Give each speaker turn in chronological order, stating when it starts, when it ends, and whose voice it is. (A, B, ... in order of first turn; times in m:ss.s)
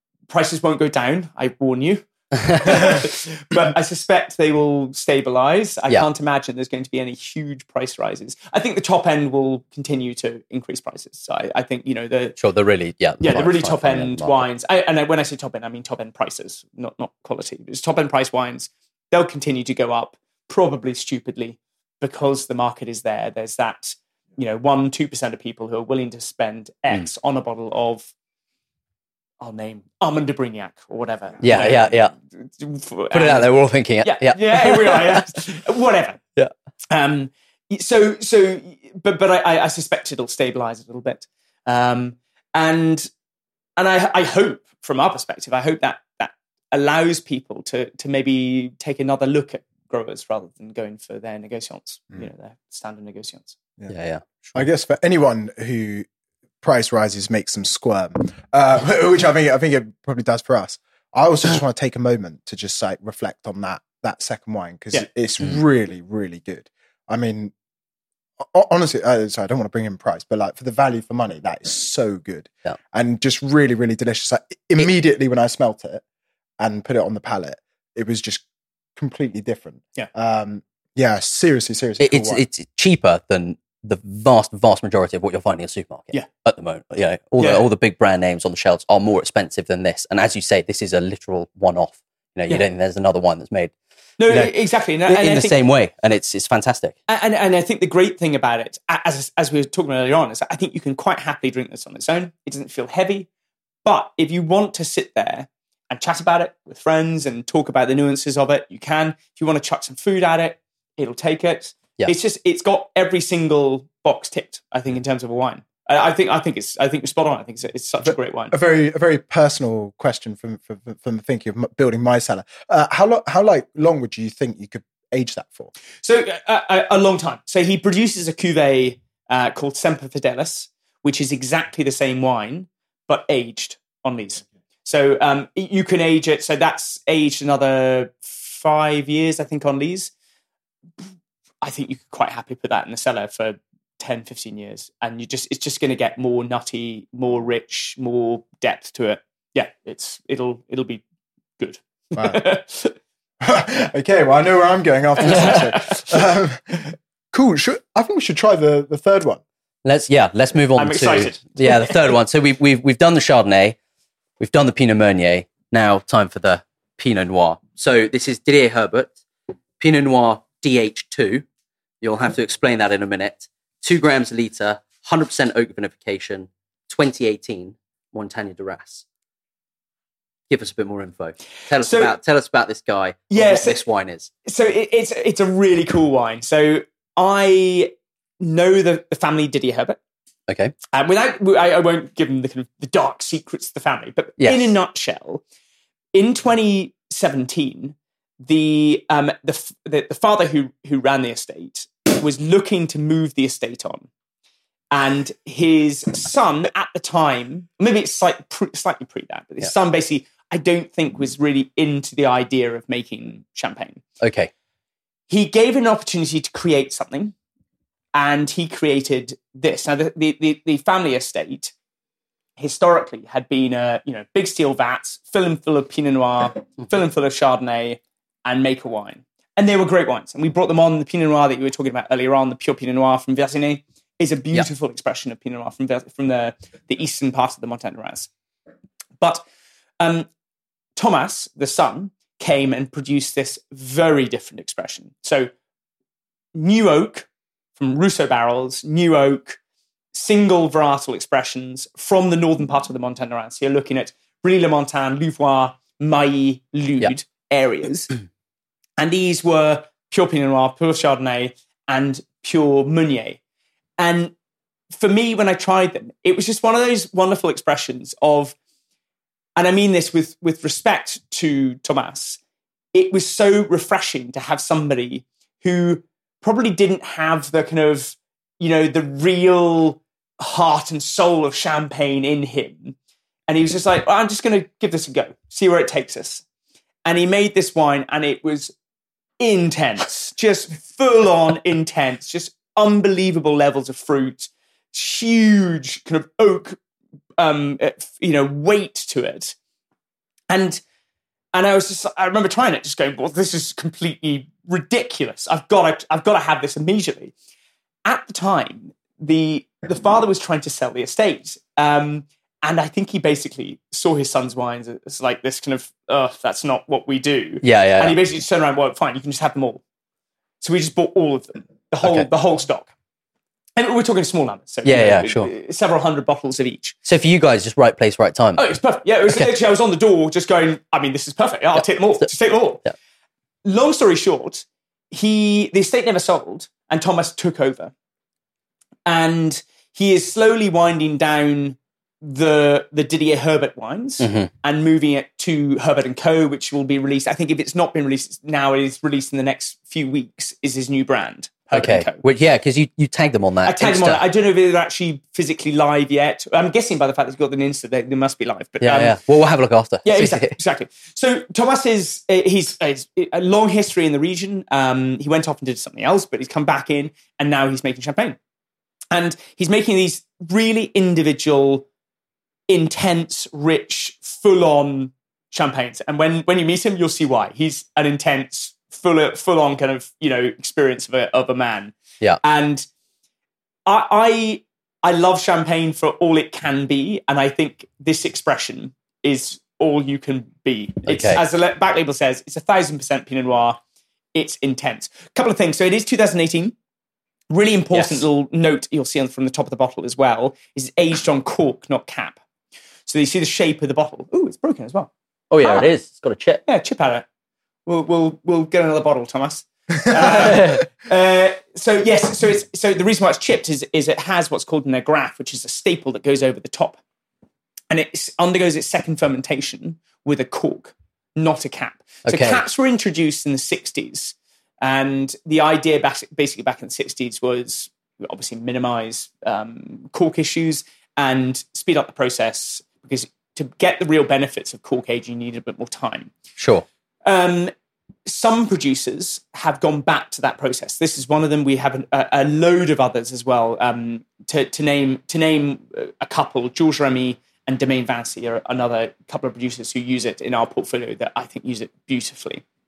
0:00.3-0:12.4 A
0:12.4-0:14.4 B
0:13.2-0:28.1 A
0:29.4-0:36.2 A
0:31.4-0:32.1 B
0:33.1-0:35.2 B
0:36.9-0:43.1 A
0:43.8-0:53.6 A
0:53.9-0:54.5 B
0:54.5-0:56.1 C
0:56.6-1:07.5 C
1:08.5-1:16.0 C
1:16.6-1:18.4 C
1:19.0-1:22.4 C
1:22.0-1:33.7 B
1:27.4-1:27.7 A
1:34.2-1:35.6 A
1:34.3-1:34.5 B
1:35.0-1:37.0 B
1:37.1-1:43.3 A
1:43.8-1:58.6 A
1:58.0-2:05.7 C
2:06.0-2:20.1 A
2:21.6-2:31.0 A
2:31.6-2:33.0 A
2:32.2-2:32.4 C
2:33.4-2:36.8 C
2:35.2-2:36.2 A
2:37.3-2:39.4 C
2:39.8-2:43.8 B
2:40.8-2:42.2 A
2:44.4-2:49.2 B
2:49.8-2:51.4 B
2:52.0-2:59.0 B
3:00.5-3:04.3 B
3:01.8-3:02.1 A
3:03.3-3:03.8 A
3:04.4-3:10.0 A
3:10.5-3:10.7 B
3:10.9-3:15.4 A
3:14.4-3:14.7 B
3:16.1-3:24.1 A
3:24.9-3:34.0 A
3:34.2-3:34.5 B
3:35.3-3:37.3 A
3:38.1-3:41.7 A
3:42.6-3:58.3 A
3:59.2-3:59.4 A
4:00.0-4:00.3 A
4:01.0-4:05.5 A
4:06.6-4:09.6 A
4:10.1-4:18.1 A
4:19.0-4:23.4 A
4:24.0-4:24.3 A
4:25.0-4:28.6 A
4:29.6-4:32.4 A
4:32.9-4:43.0 A
4:43.5-4:46.4 A
4:47.0-4:48.7 A
4:49.4-4:56.8 A
4:57.4-4:59.6 A
5:00.5-5:00.8 A
5:01.5-5:07.3 A
5:08.0-5:19.8 A
5:17.6-5:18.2 B
5:20.6-5:22.9 A
5:23.8-5:27.0 A
5:24.8-5:25.5 B
5:27.0-5:28.8 B
5:28.6-5:32.8 A
5:31.8-5:32.3 B
5:33.6-5:37.9 A
5:39.0-5:52.2 A
5:44.2-5:44.5 B
5:51.7-5:54.2 B
5:53.6-5:59.2 A
5:58.8-6:00.6 B
6:00.0-6:08.4 A
6:09.1-6:11.9 A
6:12.7-6:22.9 A
6:23.9-6:33.8 A
6:31.1-6:31.4 B
6:34.3-6:36.7 A
6:37.5-6:42.4 A
6:37.9-6:38.2 B
6:43.1-6:45.8 A
6:45.5-6:46.6 B
6:46.6-6:47.3 A
6:47.9-6:57.0 A
6:50.2-6:50.8 B
6:57.9-7:16.3 A
7:02.2-7:02.6 B
7:16.6-7:16.8 B
7:17.3-7:17.7 A
7:18.3-7:32.6 A